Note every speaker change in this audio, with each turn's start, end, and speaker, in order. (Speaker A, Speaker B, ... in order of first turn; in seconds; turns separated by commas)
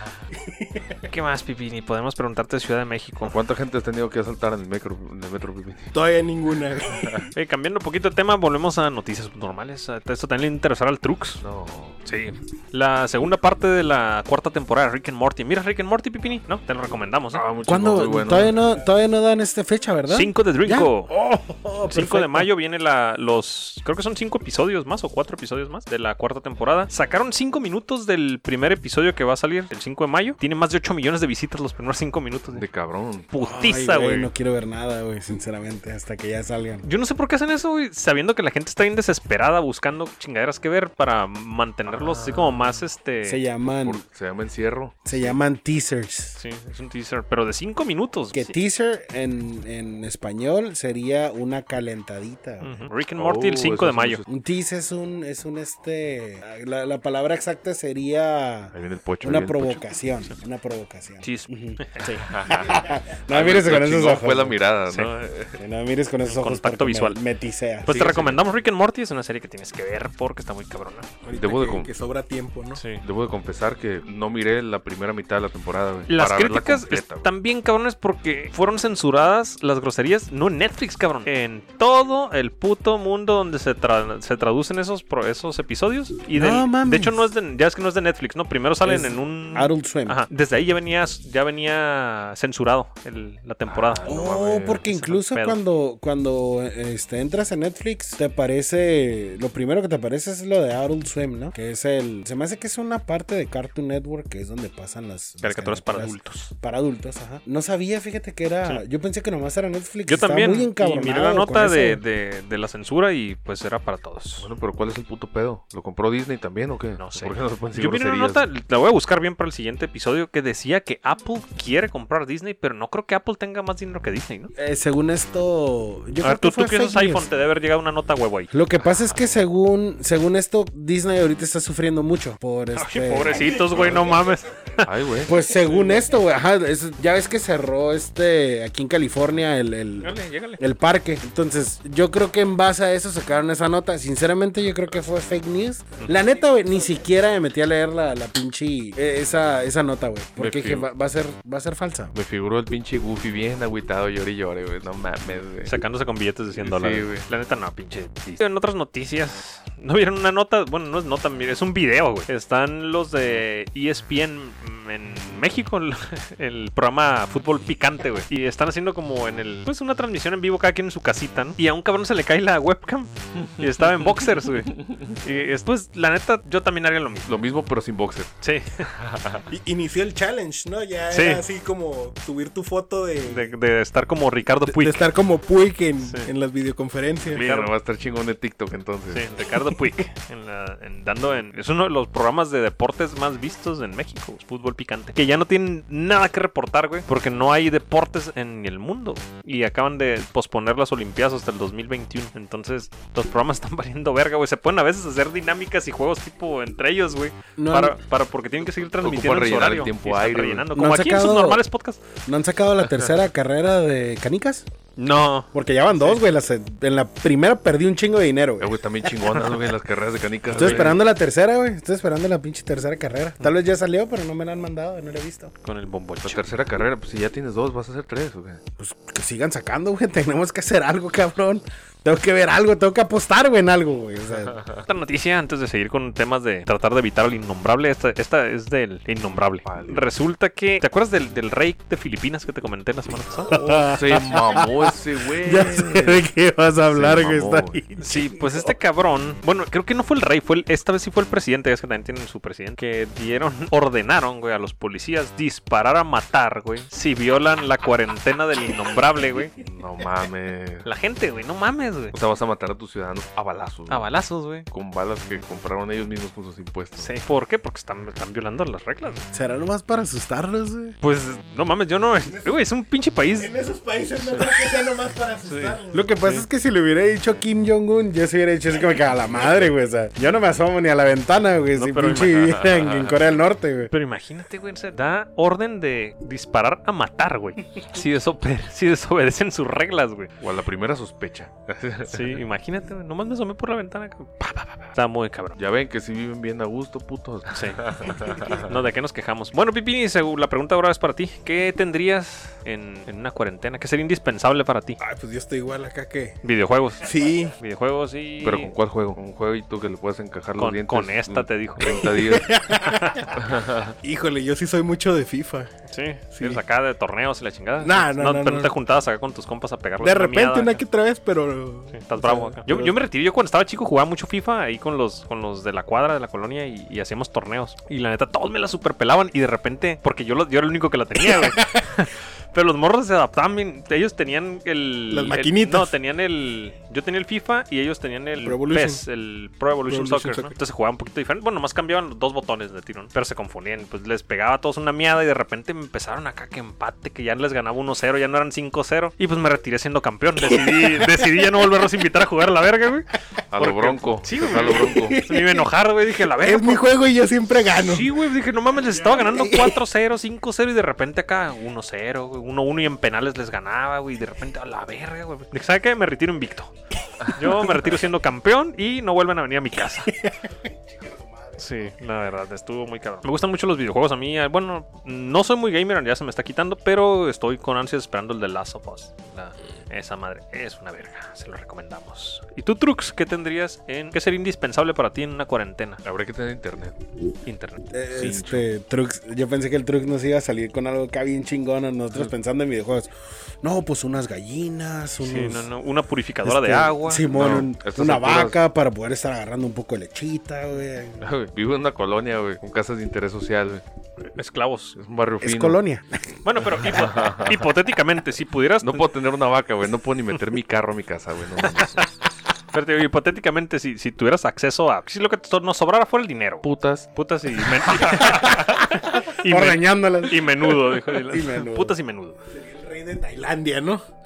Speaker A: 0.4-1.0, Speaker B: 1.1-3.4, Speaker C: 3.2-5.9, Speaker A: 5.9-7.2, Speaker C: 7.0-7.2, Speaker B: 7.3-11.4, Speaker C: 11.4-12.0, Speaker B: 12.0-17.4, Speaker C: 17.3-18.6, Speaker D: 17.6-22.5, Speaker B: 20.1-21.1, Speaker B: 21.9-32.6, Speaker C: 32.5-33.3, Speaker B: 33.3-34.3, Speaker D: 33.4-36.9, Speaker B: 36.9-43.4, Speaker C: 41.9-42.8, Speaker D: 43.2-44.0, Speaker C: 43.7-45.4, Speaker D: 45.0-46.4, Speaker B: 46.4-48.5, Speaker D: 48.3-52.9, Speaker B: 52.6-54.2, Speaker C: 53.2-54.3, Speaker D: 54.3-64.6, Speaker C: 58.7-59.9, Speaker B: 61.2-62.1, Speaker C: 62.2-65.6, Speaker D: 65.6-68.4, Speaker B: 66.3-67.2, Speaker B: 67.8-71.1, Speaker A: 71.2-72.8, Speaker C: 71.4-71.9, Speaker B: 72.7-73.0, Speaker C: 73.0-77.3, Speaker B: 76.1-94.0, Speaker D: 86.3-87.2, Speaker D: 88.8-90.2, Speaker C: 93.7-94.8, Speaker D: 94.0-112.0, Speaker B: 94.9-95.6, Speaker B: 105.4-106.5, Speaker B: 110.1-114.5, Speaker C: 114.4-118.5, Speaker B: 117.0-124.5, Speaker D: 124.5-127.3, Speaker B: 126.2-128.5, Speaker D: 128.5-134.1, Speaker B: 132.8-134.9, Speaker C: 134.8-135.3, Speaker D: 135.2-152.1, Speaker B: 140.0-140.6, Speaker C: 150.4-150.9, Speaker C: 152.1-155.7, Speaker B: 155.6-177.4, Speaker C: 156.6-157.3, Speaker C: 174.9-175.1, Speaker C: 177.2-178.3, Speaker B: 178.4-178.9, Speaker C: 178.9-179.4, Speaker A: 179.5-183.5, Speaker B: 181.1-181.4, Speaker B: 183.2-185.1, Speaker A: 184.7-187.4, Speaker B: 186.0-186.3, Speaker C: 187.3-189.2, Speaker B: 187.3-187.7, Speaker B: 189.1-212.0, Speaker D: 207.6-208.0, Speaker C: 209.0-210.7, Speaker D: 210.8-211.6, Speaker D: 212.2-214.7, Speaker B: 215.0-216.2, Speaker D: 215.5-219.4, Speaker C: 218.6-221.0, Speaker B: 220.5-220.9, Speaker D: 220.5-225.5, Speaker B: 225.6-226.5, Speaker C: 226.2-228.6, Speaker D: 228.8-234.6, Speaker C: 234.5-234.8, Speaker B: 234.9-243.5, Speaker C: 239.6-240.1, Speaker C: 243.5-246.2, Speaker D: 243.5-248.7, Speaker C: 246.9-247.8, Speaker B: 248.0-259.5, Speaker C: 259.6-260.9, Speaker B: 260.9-262.1, Speaker C: 262.1-264.1, Speaker B: 263.9-264.7, Speaker C: 264.7-267.1, Speaker B: 267.0-269.2, Speaker D: 269.3-271.0, Speaker B: 271.0-273.5, Speaker A: 272.3-272.5, Speaker A: 273.4-276.1, Speaker B: 274.2-274.5, Speaker B: 275.4-276.5, Speaker D: 275.9-283.9, Speaker B: 281.8-282.6, Speaker C: 282.5-283.1, Speaker B: 283.9-290.3, Speaker C: 290.4-292.4, Speaker B: 292.1-295.6, Speaker C: 295.5-298.7, Speaker B: 297.5-305.0, Speaker A: 305.0-306.4, Speaker B: 306.4-308.7, Speaker A: 307.0-307.6, Speaker C: 308.4-312.6, Speaker B: 310.6-312.1, Speaker A: 311.8-313.3, Speaker B: 312.8-313.3, Speaker C: 313.3-313.9, Speaker A: 314.0-315.7, Speaker B: 315.9-320.8, Speaker A: 316.3-316.6, Speaker A: 317.8-318.7, Speaker A: 320.0-322.9, Speaker B: 321.9-356.9, Speaker A: 331.3-331.9, Speaker A: 335.1-335.9, Speaker A: 338.4-339.0, Speaker A: 339.9-340.6, Speaker A: 350.4-351.3, Speaker C: 353.5-355.2, Speaker A: 354.5-355.7, Speaker A: 356.4-358.1, Speaker B: 357.8-366.7, Speaker A: 359.0-359.8, Speaker A: 367.3-367.8, Speaker B: 367.3-370.1, Speaker D: 371.0-371.6, Speaker B: 371.6-386.0, Speaker C: 386.0-387.0, Speaker B: 387.4-387.8, Speaker D: 387.9-393.1, Speaker C: 388.1-388.6, Speaker D: 393.6-395.7, Speaker B: 395.2-397.3, Speaker D: 396.4-401.3, Speaker C: 397.3-398.6, Speaker C: 401.2-403.8, Speaker B: 404.2-404.9, Speaker C: 404.9-405.8, Speaker D: 405.4-406.2, Speaker B: 406.4-409.1, Speaker C: 406.8-407.6, Speaker C: 408.8-412.1, Speaker B: 411.7-412.1, Speaker B: 412.7-422.4, Speaker C: 416.6-417.1, Speaker D: 418.0-421.9, Speaker A: 422.5-424.0